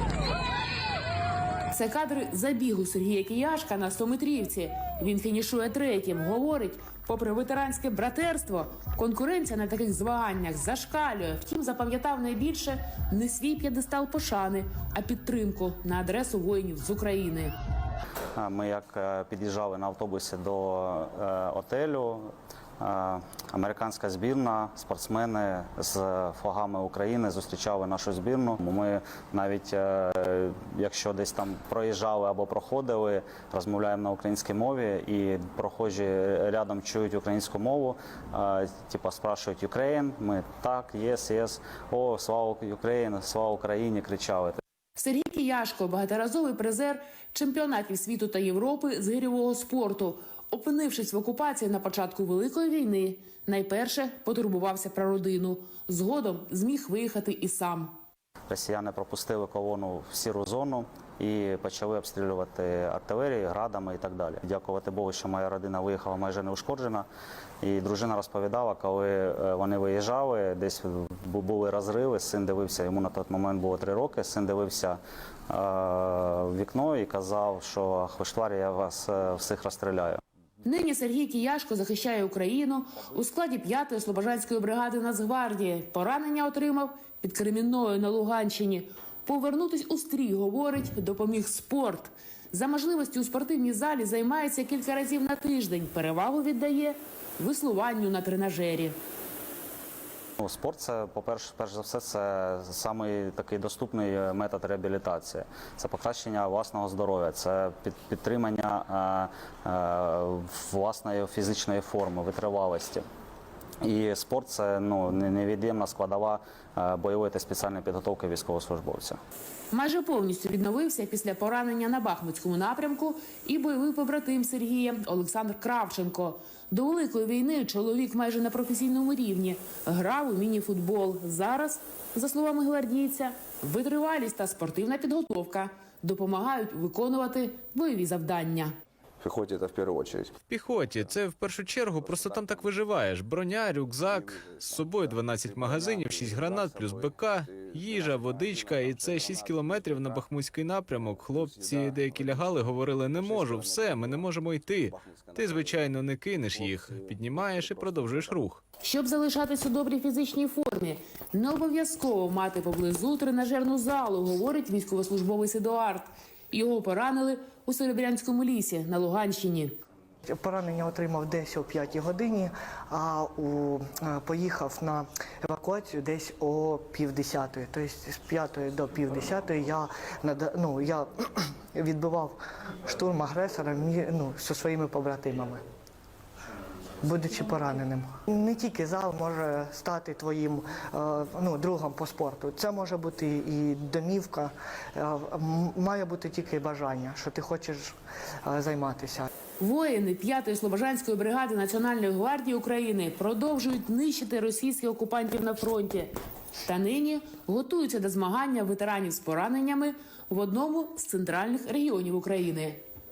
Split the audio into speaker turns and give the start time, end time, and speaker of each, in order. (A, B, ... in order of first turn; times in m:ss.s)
0:01.7-0:17.5 A
0:18.4-0:44.6 B
0:45.0-0:57.9 A
0:58.5-1:07.0 B
1:07.6-1:15.0 B
1:15.5-1:20.2 B
1:20.6-1:38.9 A
1:40.4-1:53.0 B
1:53.8-1:59.2 B
1:59.7-2:18.7 A
2:19.2-2:20.3 C
2:20.4-2:38.6 D
2:22.0-2:22.8 C
2:24.1-2:30.2 C
2:31.4-2:32.6 C
2:33.2-2:34.3 C
2:34.8-2:35.8 C
2:36.5-2:38.4 C
2:38.8-2:49.7 A
2:50.2-3:05.6 E
3:07.0-3:19.3 E
3:19.6-3:26.1 A
3:26.6-3:32.8 A